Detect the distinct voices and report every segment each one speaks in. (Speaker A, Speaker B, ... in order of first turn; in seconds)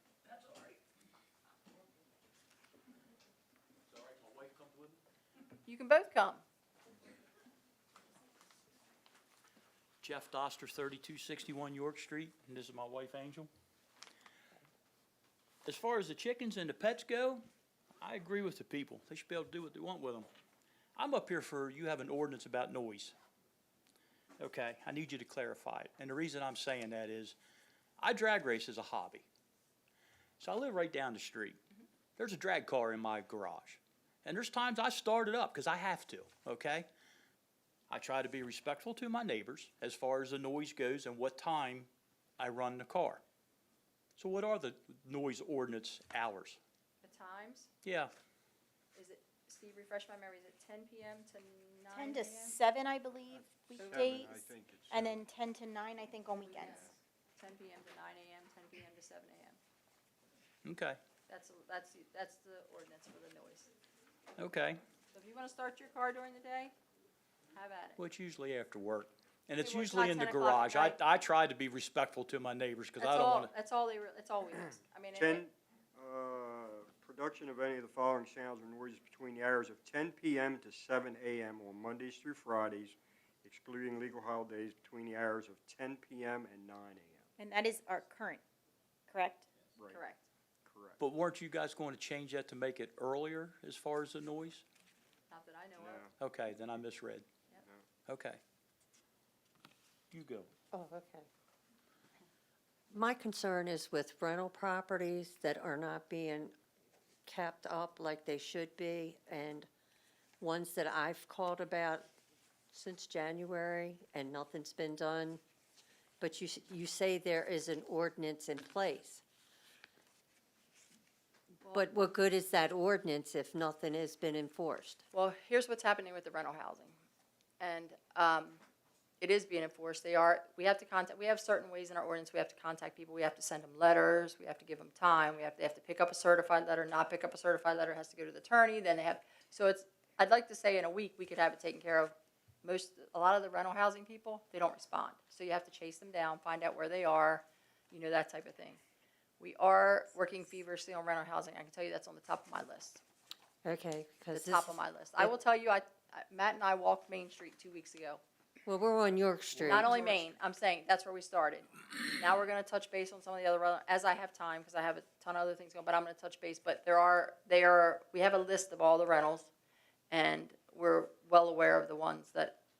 Speaker A: 0.2-0.8, 3.9-5.0, 10.0-13.5, 15.6-17.4, 18.0-20.3, 20.9-23.1, 24.4-27.4, 28.0-29.3, 30.4-31.6, 32.2-36.9, 37.9-41.9, 42.4-43.2, 44.2-46.6, 47.8-48.1, 60.6-61.0, 64.4-64.8, 68.0-73.5, 91.0-94.6, 96.2-97.3, 98.1-98.4, 100.1-100.5
Speaker B: 5.7-6.4, 47.0-47.7, 48.9-52.6, 53.8-54.3, 56.4-59.6, 61.3-63.7, 65.1-66.7, 67.5-68.0, 69.6-71.0, 73.0-75.4, 89.9-90.3, 95.3-96.1, 125.1-127.0, 127.6-128.6, 129.2-148.8, 149.4-153.0, 154.3-158.2, 159.6-169.5, 170.1-172.6
Speaker C: 51.9-56.9, 87.4-88.4, 89.1-89.5
Speaker D: 53.3-55.2, 75.1-87.3, 89.8-90.0, 90.6-91.0, 95.8-96.1
Speaker E: 100.7-101.3, 102.9-106.5, 107.2-109.7, 110.4-112.1, 112.7-115.4, 116.2-119.2, 121.7-125.0, 153.6-155.3, 158.7-160.2